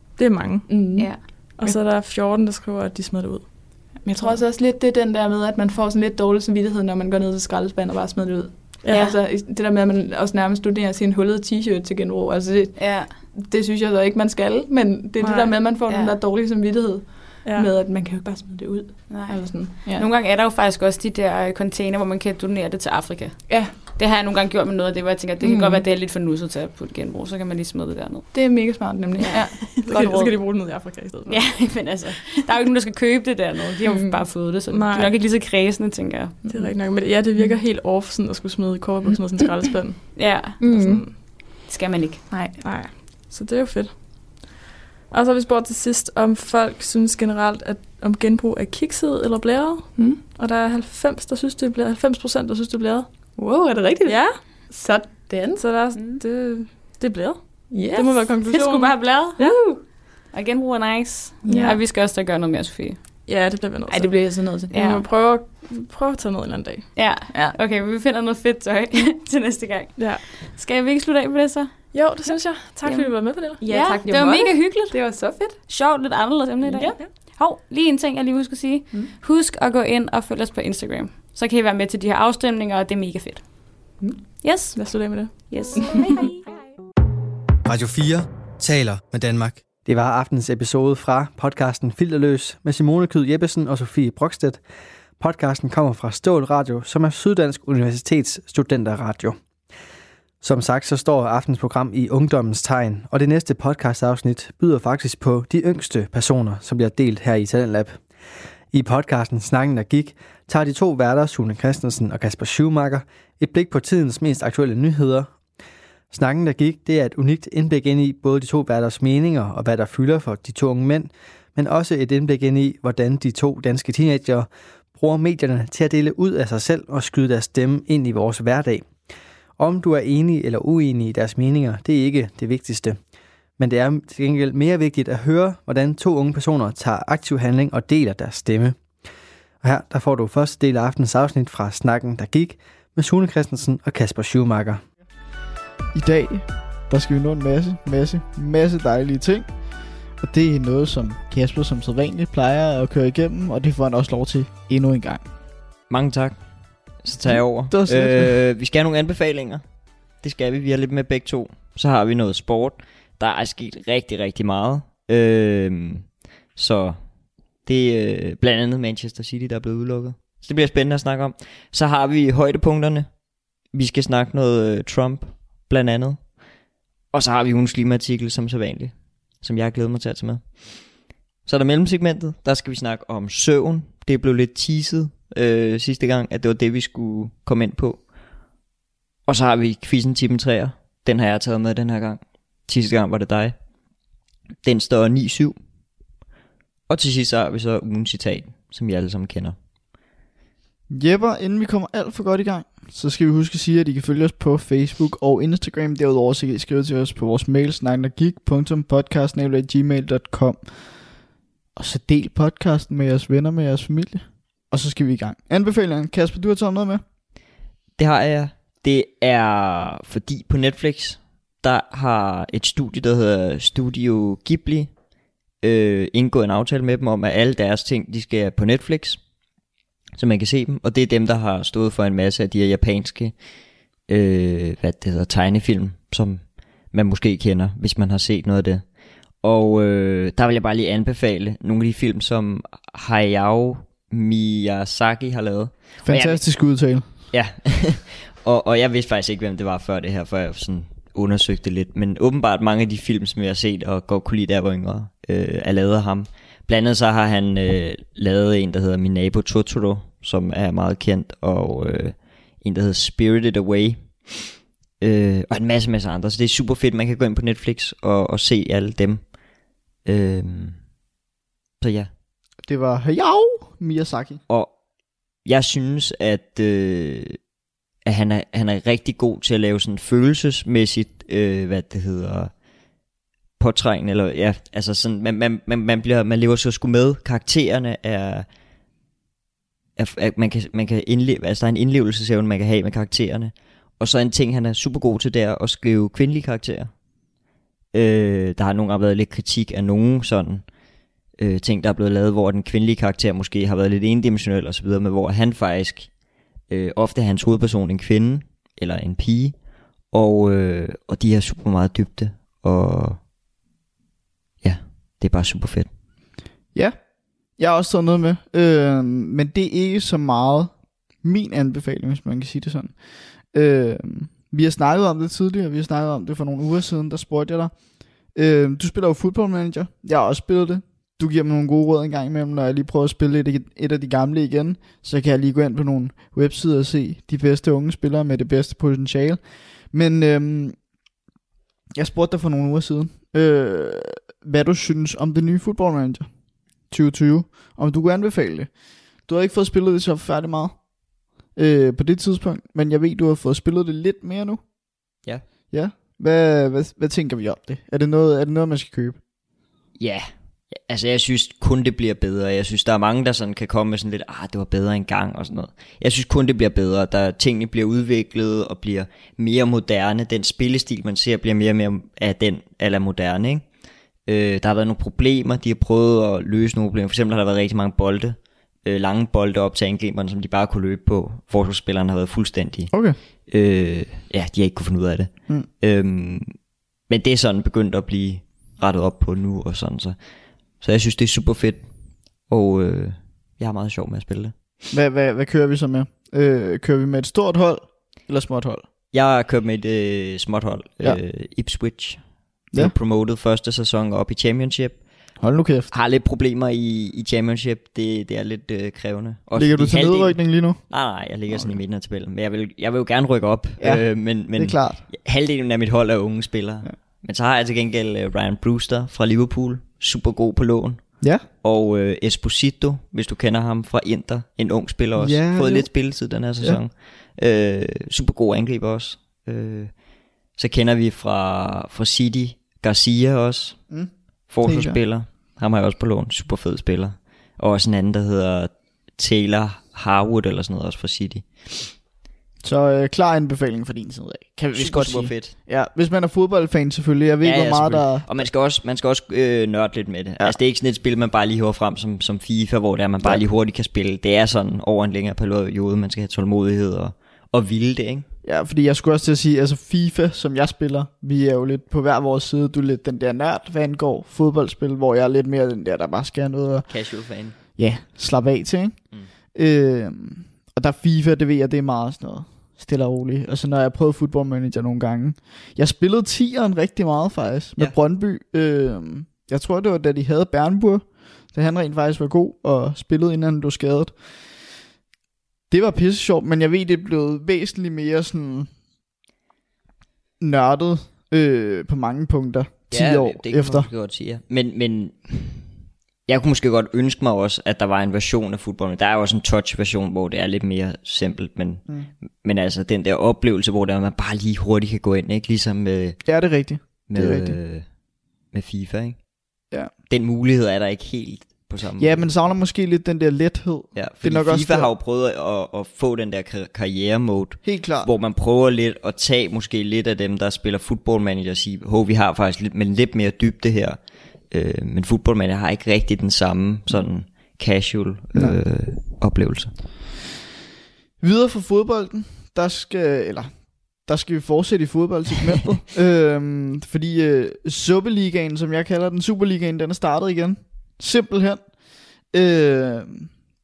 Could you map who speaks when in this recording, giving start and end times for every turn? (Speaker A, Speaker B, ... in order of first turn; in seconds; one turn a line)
Speaker A: 0.2-4.4
Speaker B: 0.7-1.8
Speaker C: 1.0-1.2
Speaker B: 4.0-20.1
Speaker A: 8.8-9.1
Speaker C: 8.9-9.2
Speaker C: 12.8-13.1
Speaker A: 15.2-15.6
Speaker C: 15.9-16.2
Speaker A: 17.4-17.7
Speaker C: 19.1-29.4
Speaker B: 23.5-23.7
Speaker B: 25.4-25.8
Speaker B: 28.3-30.3
Speaker A: 29.7-31.7
Speaker C: 31.3-36.4
Speaker A: 34.7-35.1
Speaker B: 36.4-36.7
Speaker A: 36.5-41.1
Speaker C: 40.1-40.6
Speaker B: 40.6-41.0
Speaker C: 41.2-42.2
Speaker B: 42.3-42.6
Speaker A: 42.6-44.5
Speaker A: 45.1-53.1
Speaker B: 53.4-55.6
Speaker A: 54.1-54.4
Speaker A: 55.6-59.6
Speaker C: 56.0-56.2
Speaker B: 57.7-58.2
Speaker C: 58.5-59.5
Speaker C: 60.3-63.0
Speaker B: 61.4-61.8
Speaker A: 61.5-61.8
Speaker A: 63.3-66.9
Speaker B: 63.9-64.7
Speaker C: 64.7-65.0
Speaker C: 67.0-72.0
Speaker A: 70.0-70.2
Speaker A: 71.9-73.6
Speaker C: 72.8-83.8
Speaker B: 73.6-75.6
Speaker B: 76.7-77.0
Speaker C: 84.4-86.4
Speaker A: 84.8-86.1
Speaker D: 87.7-94.6
Speaker D: 95.2-99.4
Speaker D: 100.4-108.0
Speaker D: 108.7-115.3
Speaker D: 116.1-128.9
Speaker D: 129.6-133.0
Speaker D: 133.6-138.8
Speaker D: 139.6-144.8
Speaker E: 145.9-149.6
Speaker E: 150.2-155.2
Speaker F: 155.9-156.4
Speaker F: 157.0-159.6
Speaker E: 157.2-158.3
Speaker F: 160.2-167.0
Speaker F: 167.6-173.1
Speaker F: 173.7-176.3
Speaker F: 177.1-188.1
Speaker F: 189.3-193.6
Speaker F: 194.6-195.6
Speaker F: 196.9-199.6
Speaker E: 200.9-210.9
Speaker E: 211.8-217.0
Speaker F: 218.0-224.9
Speaker F: 225.6-229.2
Speaker F: 230.2-233.4
Speaker F: 234.1-238.9
Speaker F: 239.4-246.5
Speaker E: 246.0-247.2
Speaker F: 247.3-269.3
Speaker F: 270.1-270.8
Speaker F: 271.8-272.1
Speaker E: 272.6-274.4
Speaker F: 274.5-274.7
Speaker F: 275.4-277.4
Speaker F: 278.1-282.5
Speaker F: 283.6-288.5
Speaker F: 290.0-296.9
Speaker F: 297.9-300.7
Speaker F: 301.4-306.1
Speaker F: 306.7-309.6
Speaker F: 310.1-313.2
Speaker F: 314.6-315.9
Speaker E: 317.6-323.0
Speaker E: 323.5-327.8
Speaker E: 328.4-340.8
Speaker E: 341.9-346.3
Speaker E: 346.9-348.7
Speaker E: 349.2-350.8
Speaker E: 351.5-354.6
Speaker E: 355.7-359.2
Speaker F: 360.0-373.6
Speaker F: 374.3-386.5
Speaker E: 382.9-383.2
Speaker F: 387.1-390.1
Speaker F: 390.8-391.8
Speaker F: 392.5-394.5
Speaker E: 394.9-398.9
Speaker F: 399.1-402.2
Speaker F: 402.8-405.0
Speaker E: 405.4-405.9
Speaker F: 405.9-429.9
Speaker E: 409.5-410.9
Speaker E: 411.5-411.8
Speaker E: 413.8-415.1
Speaker E: 421.2-421.5
Speaker E: 425.2-426.8
Speaker F: 430.6-433.8
Speaker E: 433.9-435.0
Speaker F: 434.5-441.9
Speaker E: 442.6-448.4
Speaker F: 444.8-445.6
Speaker F: 447.4-458.3
Speaker E: 458.4-466.9
Speaker F: 466.9-467.6
Speaker E: 467.8-484.2
Speaker E: 485.7-488.7
Speaker E: 490.4-493.9
Speaker F: 492.9-495.7
Speaker F: 496.3-506.2
Speaker E: 506.2-507.6
Speaker F: 506.9-507.9
Speaker F: 508.5-509.2
Speaker F: 510.1-512.3
Speaker E: 512.0-514.9
Speaker F: 514.0-524.0
Speaker E: 517.6-518.1
Speaker F: 524.5-529.7
Speaker E: 531.2-541.6
Speaker E: 542.3-543.3